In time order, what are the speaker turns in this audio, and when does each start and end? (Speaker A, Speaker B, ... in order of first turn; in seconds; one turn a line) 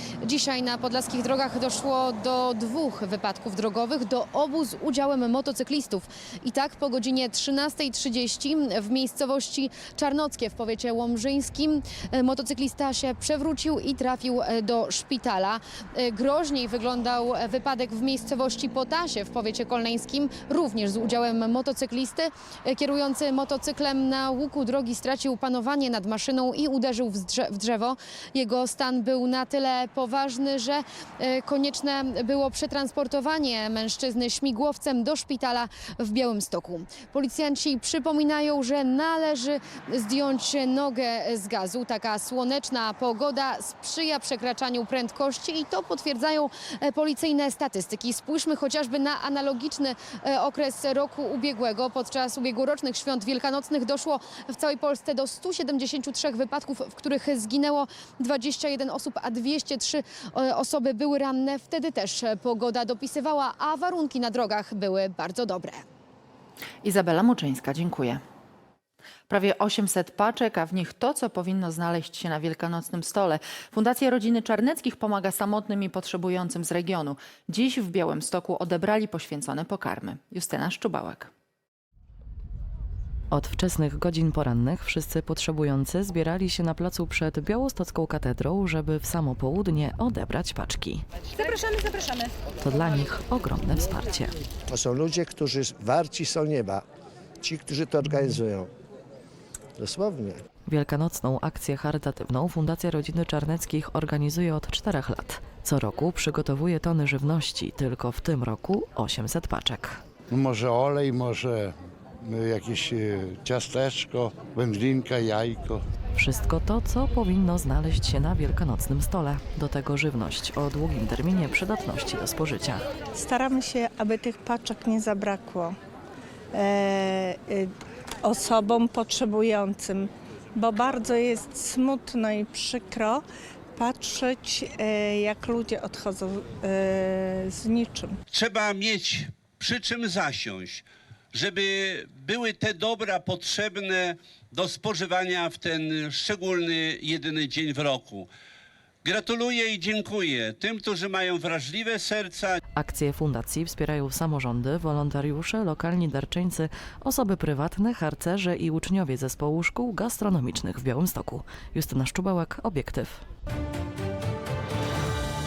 Speaker A: 0.2-65.8
Speaker B: 66.8-68.2
Speaker B: 69.3-81.3
Speaker C: 83.3-91.0
Speaker C: 92.6-94.3
Speaker D: 94.7-96.8
Speaker D: 97.4-98.7
Speaker D: 99.8-100.4
Speaker C: 100.7-110.0
Speaker E: 110.3-115.8
Speaker C: 116.2-122.9
Speaker F: 123.1-125.7
Speaker F: 126.5-127.7
Speaker F: 128.2-133.2
Speaker F: 133.8-138.1
Speaker G: 138.3-148.3
Speaker G: 149.0-152.6
Speaker C: 152.8-163.2